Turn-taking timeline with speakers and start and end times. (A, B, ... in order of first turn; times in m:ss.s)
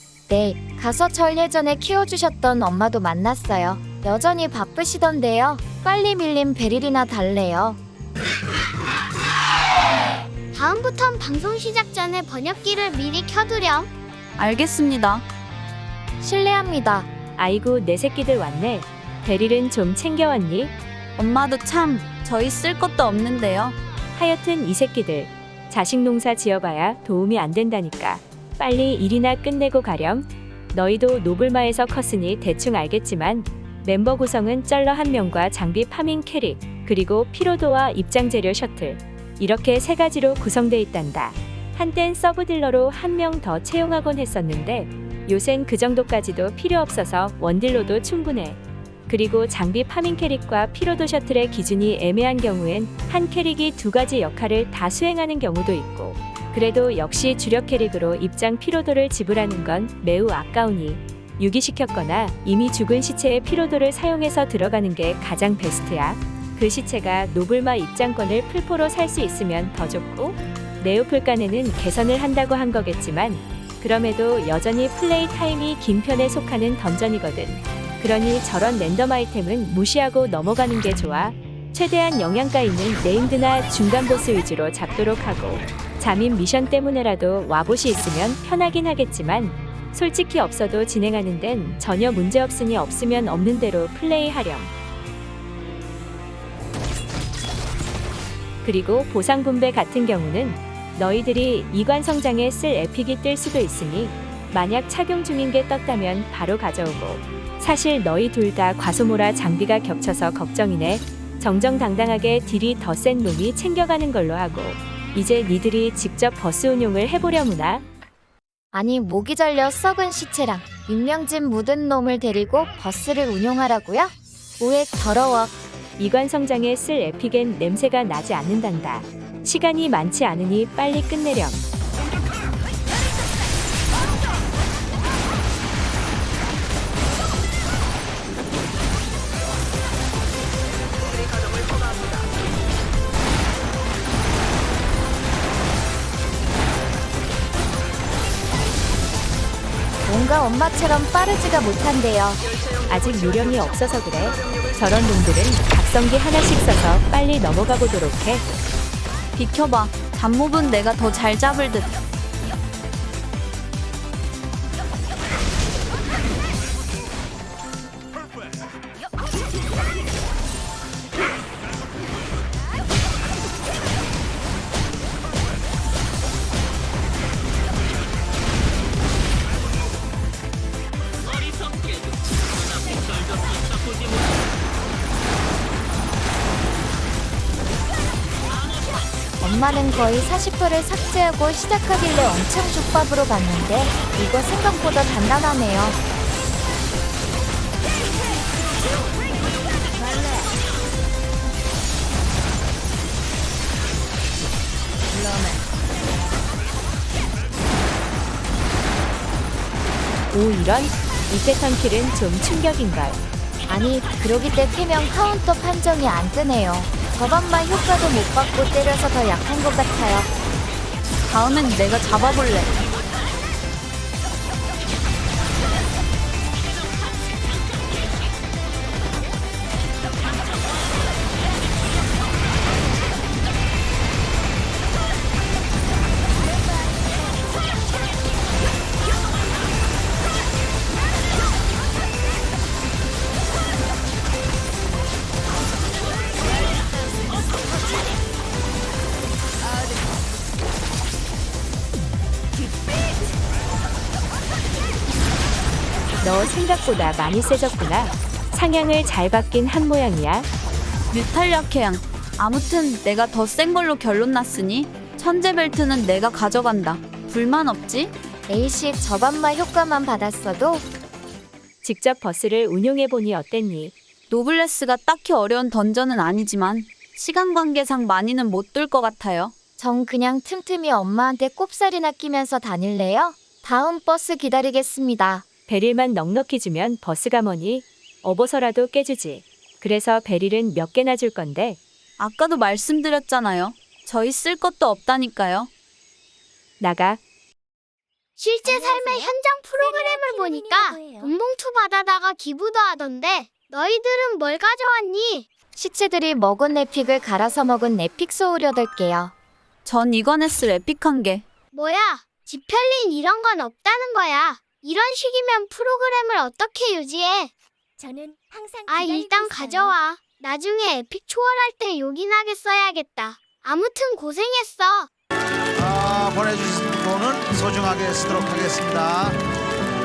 0:00.3-0:07.8 A
0:10.5-0:13.9 B
0:14.4-0:15.2 C
0:16.2-0:17.1 A
0:17.4-0:20.7 D
0:21.2-0:23.8 C
0:24.1-1:34.7 D
1:38.6-1:57.8 D
1:58.7-2:05.5 A
2:06.0-2:11.6 D
2:30.0-2:32.4 A
2:32.9-2:38.4 D
2:39.3-2:41.9 C
3:09.4-3:16.0 A
3:25.2-3:25.5 A
3:30.3-3:33.2 D
3:33.7-3:40.3 A
3:41.3-3:42.7 C
4:16.2-4:20.5 D
4:21.1-4:28.1 C
4:28.5-4:30.8 A
4:31.8-4:33.9 D
4:34.3-4:39.5 C
4:39.8-4:45.4 A
4:45.7-4:51.8 D
4:52.2-4:55.7 C
4:56.8-4:57.2 D
4:58.4-5:05.5 B
4:58.6-5:01.4 E
5:05.7-5:09.3 A
5:09.8-5:11.4 C
5:11.7-5:17.5 B
5:18.0-5:20.0 E
5:18.9-5:25.1 B
5:25.8-5:29.4 F